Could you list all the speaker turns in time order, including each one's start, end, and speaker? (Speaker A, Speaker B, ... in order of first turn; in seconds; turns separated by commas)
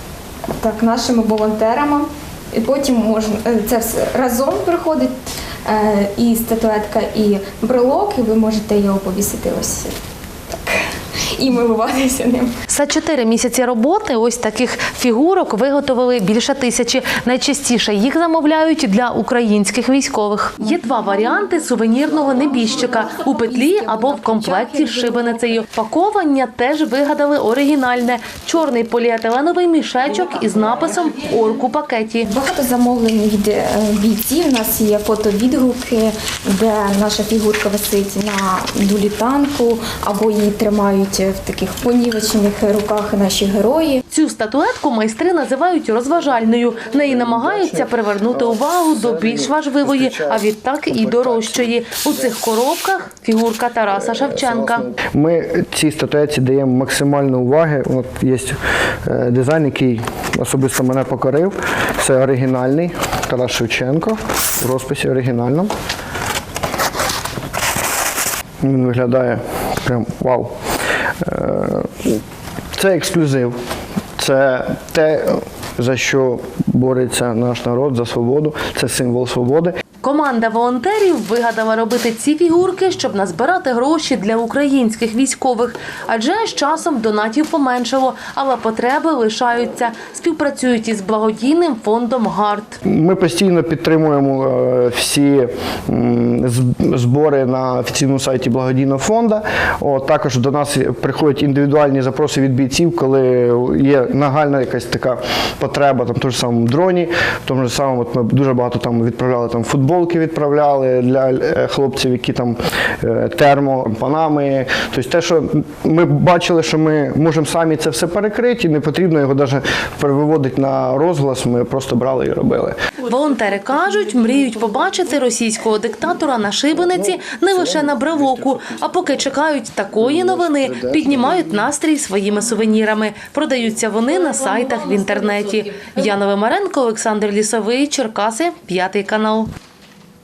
Speaker A: 0.6-9.9, Speaker A: 10.6-12.6, Speaker B: 12.7-32.3, Speaker A: 22.5-25.6, Speaker A: 32.2-44.0, Speaker B: 44.1-54.9, Speaker C: 46.9-52.3, Speaker C: 53.9-65.7, Speaker C: 68.6-70.5, Speaker C: 71.2-72.2, Speaker C: 72.8-73.6, Speaker C: 74.2-79.7, Speaker B: 80.0-92.8, Speaker C: 92.8-122.8, Speaker B: 123.0-139.5, Speaker C: 127.0-128.7, Speaker C: 130.0-131.7